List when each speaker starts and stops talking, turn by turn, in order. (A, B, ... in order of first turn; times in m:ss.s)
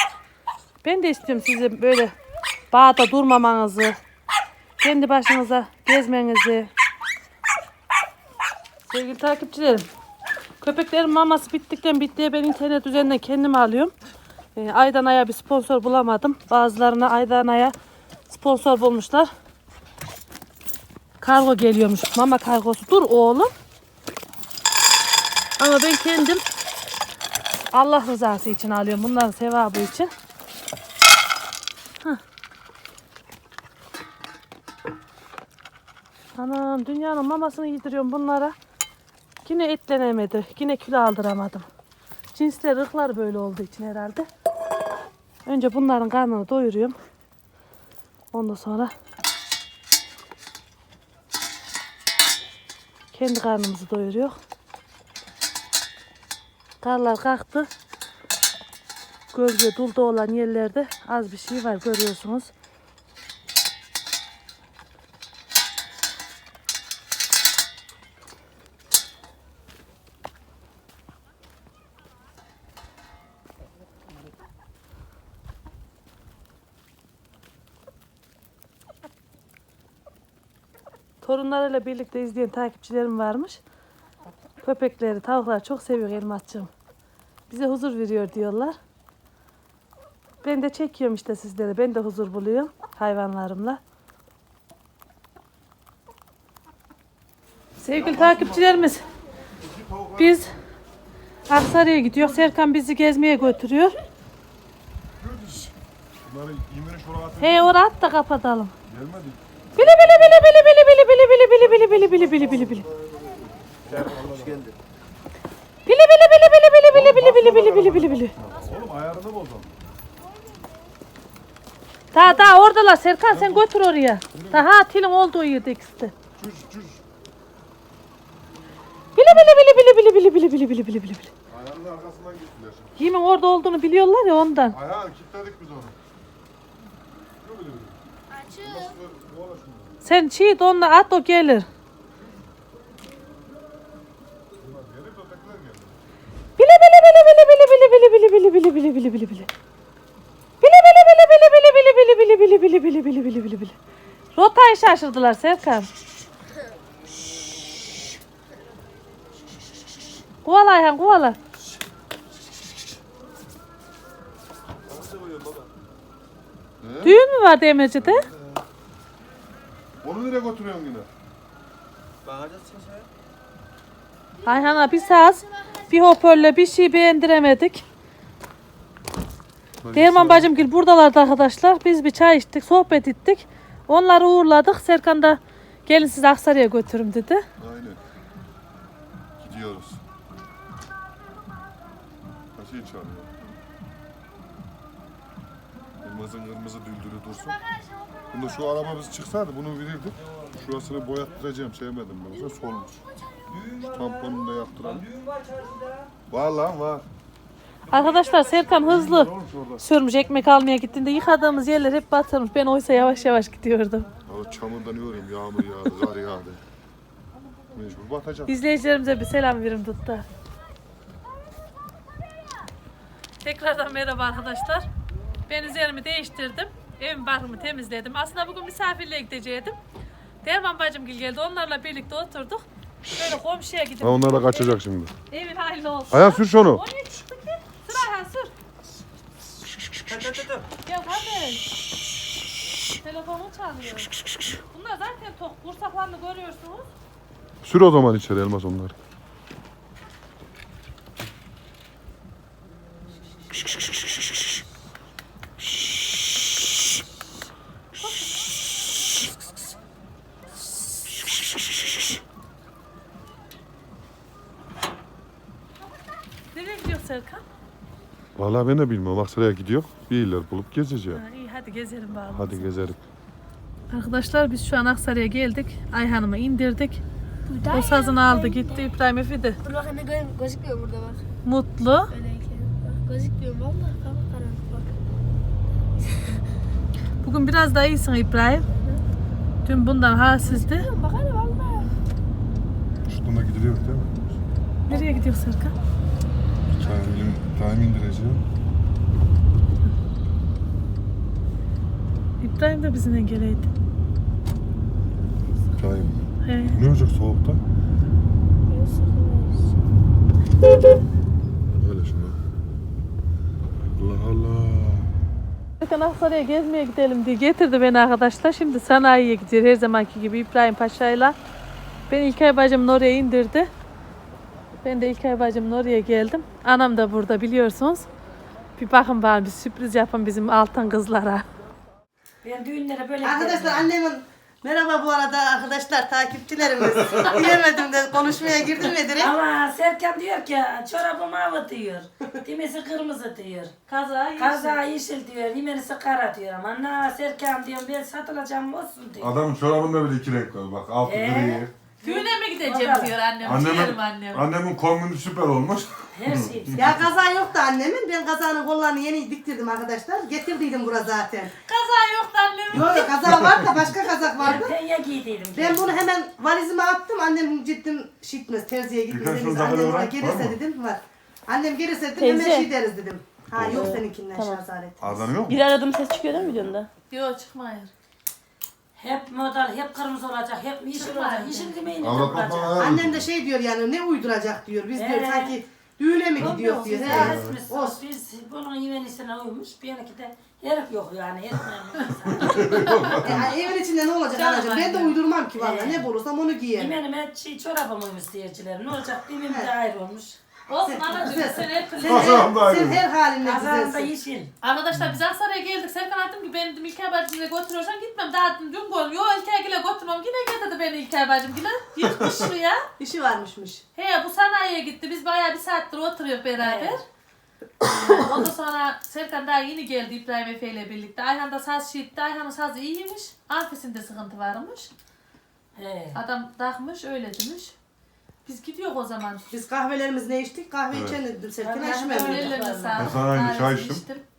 0:00.8-0:02.1 A
0:02.7-0:04.0 A
0:04.8-0:06.7 A
0:08.9-0:09.9 A
0:10.6-0:13.9 A
0:14.6-0:17.8 A
0:18.3-0:19.3 A
0:21.2-0:23.5 A
0:25.6-0:26.4 A
0:27.7-0:30.1 A
0:36.4-0:38.5 A
0:39.4-0:41.7 A
0:42.3-0:44.3 A
0:45.5-0:47.0 A
0:48.3-0:48.9 A
0:53.1-0:54.4 A
0:56.8-0:57.7 A
0:59.3-1:02.5 A
1:21.2-1:23.6 A
1:24.6-1:26.7 A
1:27.5-1:28.8 A
1:30.4-1:33.8 A
1:37.8-1:39.0 A
1:37.9-1:38.9 B
1:39.6-1:40.5 B
1:40.2-1:40.5 A
1:41.5-1:44.0 A
1:45.2-1:47.8 B
1:47.4-1:48.7 A
1:48.9-1:49.8 B
1:49.8-1:52.9 A
1:51.6-1:54.7 B
1:55.9-1:58.3 A
1:56.9-1:59.8 B
2:02.1-2:06.1 A
2:02.2-2:02.5 B
2:03.3-2:03.7 B
2:04.3-2:04.7 B
2:06.4-2:07.0 B
2:09.2-2:11.3 A
2:11.5-2:13.0 B
2:13.0-2:14.8 A
2:14.7-2:16.0 B
2:17.4-2:20.0 B
2:18.3-2:18.9 C
2:20.0-2:21.7 A
2:22.2-2:22.4 B
2:24.6-2:26.0 B
2:26.6-2:29.5 A
2:30.6-2:33.8 A
2:34.4-2:35.9 A
2:40.4-2:41.4 A
2:44.9-2:45.4 B
2:46.8-2:47.2 B
2:47.0-2:48.3 A
2:48.0-2:48.6 B
2:50.0-2:51.1 B
2:54.4-2:57.8 A
2:59.8-3:00.7 B
2:59.9-3:07.4 A
3:07.6-3:08.0 B
3:09.4-3:10.0 B
3:12.6-3:13.3 B
3:16.0-3:17.6 B
3:18.3-3:23.0 B
3:23.5-3:25.1 B
3:26.3-3:27.0 B
3:27.9-3:34.1 A
3:28.8-3:29.8 B
3:34.3-3:36.6 B
3:37.7-3:38.6 B
3:38.5-3:40.2 A
3:43.4-3:44.9 A
3:45.5-3:49.8 A
3:50.4-3:54.8 A
3:54.0-3:55.1 B
3:55.3-3:58.5 A
3:56.1-3:56.8 B
4:00.0-4:00.5 B
4:00.9-4:01.7 A
4:03.0-4:06.9 A
4:07.6-4:09.0 B
4:18.0-4:18.4 A
4:26.5-4:27.4 A
4:28.4-4:31.2 B
4:31.1-4:32.7 A
4:32.3-4:33.0 B
4:33.9-4:37.0 A
4:37.5-4:38.8 C
4:37.7-4:39.6 A
4:39.6-4:41.2 C
4:41.4-4:42.1 A
4:42.1-4:44.9 C
4:47.2-4:48.7 A
4:49.7-4:50.9 A
4:50.4-4:51.9 C
4:53.1-4:54.3 B
4:54.9-4:55.8 A
4:54.9-4:55.2 C
4:56.7-4:58.4 B
5:02.4-5:03.7 A
5:05.7-5:07.6 B
5:06.4-5:06.8 A
5:08.7-5:09.6 C
5:11.7-5:12.4 B
5:13.9-5:15.1 B
5:15.8-5:21.4 A
5:22.1-5:23.7 A
5:24.8-5:28.1 A
5:28.8-5:31.4 A
5:32.4-5:33.9 D
5:33.2-5:39.4 E
5:39.1-5:43.7 D
5:43.9-5:44.8 A
5:44.4-5:49.3 D
5:49.2-5:51.7 B
5:51.1-5:53.2 D
5:52.0-5:54.4 A
5:53.4-5:56.8 B
5:56.2-5:56.8 D
5:56.8-6:01.5 E
6:01.7-6:03.5 A
6:02.7-6:04.8 E
6:03.3-6:03.7 B
6:04.4-6:06.0 D
6:05.5-6:15.3 E
6:09.1-6:10.6 B
6:12.2-6:12.7 F
6:13.5-6:14.0 B
6:13.7-6:14.6 F
6:15.0-6:15.6 B
6:15.5-6:16.9 F
6:17.1-6:17.9 A
6:19.0-6:22.9 D
6:21.0-6:21.7 A
6:22.0-6:23.3 B
6:22.8-6:28.0 E
6:24.9-6:25.6 D
6:26.4-6:33.4 D
6:26.4-6:27.6 B
6:32.3-6:33.6 B
6:33.2-6:37.0 E
6:34.3-6:35.2 A
6:35.6-6:36.1 D
6:36.8-6:40.4 D
6:40.7-6:42.5 A
6:40.8-6:44.1 E
6:41.1-6:41.4 D
6:42.1-6:43.1 B
6:43.4-6:44.5 D
6:44.6-6:52.8 A
6:52.0-6:52.4 B
6:53.0-6:53.8 E
6:54.0-6:57.0 A
6:56.6-6:57.0 D
6:58.0-7:04.9 A
7:05.8-7:06.2 D
7:06.1-7:07.7 A
7:08.5-7:09.5 A
7:09.5-7:12.6 E
7:10.9-7:11.2 B
7:11.6-7:13.2 D
7:11.8-7:14.2 A
7:13.0-7:14.0 B